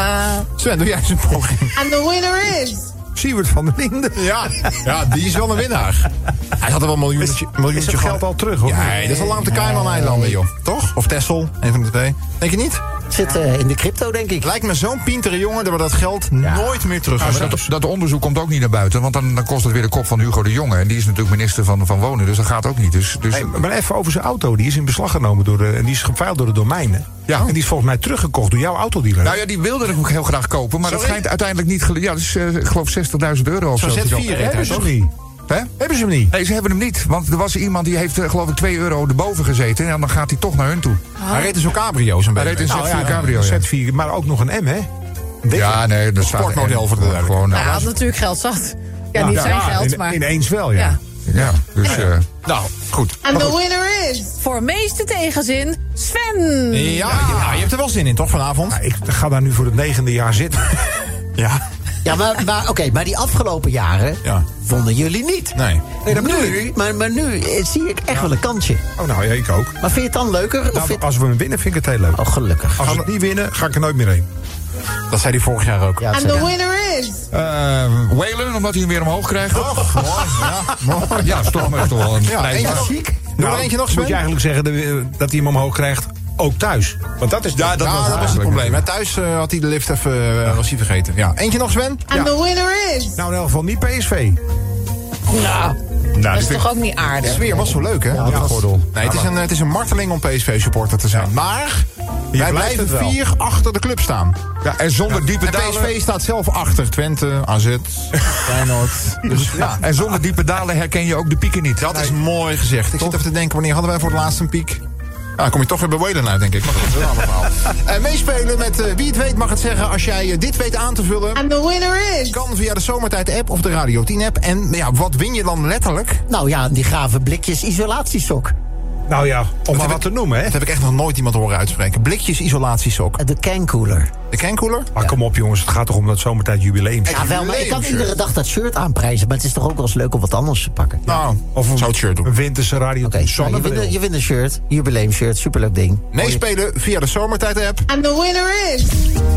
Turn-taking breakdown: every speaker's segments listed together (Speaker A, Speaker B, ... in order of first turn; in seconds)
Speaker A: 0.4-1.7, 4.1-12.8, 14.4-17.7, 30.8-31.2, 33.8-34.9, 41.3-43.2, 46.2-47.9, 51.9-53.2, 56.7-58.8, 61.4-61.6, 65.5-65.8, 72.8-73.0, 75.1-76.1, 79.5-84.2, 87.8-92.0, 97.2-104.4, 105.3-109.8, 111.8-114.8, 115.4-121.5, 122.3-126.2, 129.7-133.2, 134.3-134.9, 137.1-138.1, 141.1-142.3, 146.1-147.9
Speaker B: 1.7-2.9, 53.2-54.3, 76.1-77.2, 92.1-93.2, 121.3-122.5, 147.9-149.0
Speaker C: 3.1-4.5, 7.2-9.5, 17.2-17.6, 23.3-29.4, 33.8-35.1, 35.8-36.3, 42.7-44.9, 45.4-45.8, 49.1-51.0, 58.7-61.0, 66.0-66.7, 69.0-69.8, 70.7-72.2, 72.8-74.3, 83.4-88.4, 93.2-94.4, 98.1-99.2, 102.3-103.2, 129.1-130.6, 134.9-137.4, 141.1-144.0
Speaker D: 8.9-10.3, 13.1-14.5, 16.4-16.7, 62.0-68.8, 69.8-71.0, 72.1-72.9, 76.0-76.5, 82.6-83.2, 98.1-98.6, 126.3-128.5, 133.2-134.1, 137.1-141.1, 143.0-146.4
Speaker E: 17.2-23.6, 27.3-27.5, 29.2-34.8, 36.3-41.0, 42.4-43.6, 45.5-47.9, 49.3-49.8, 51.3-52.2, 77.3-80.3, 81.1-82.9, 87.5-88.8, 96.2-96.5, 98.1-99.2, 104.6-105.9, 109.8-112.0
Speaker F: 41.2-41.5, 47.5-51.0, 54.4-57.2, 95.3-97.6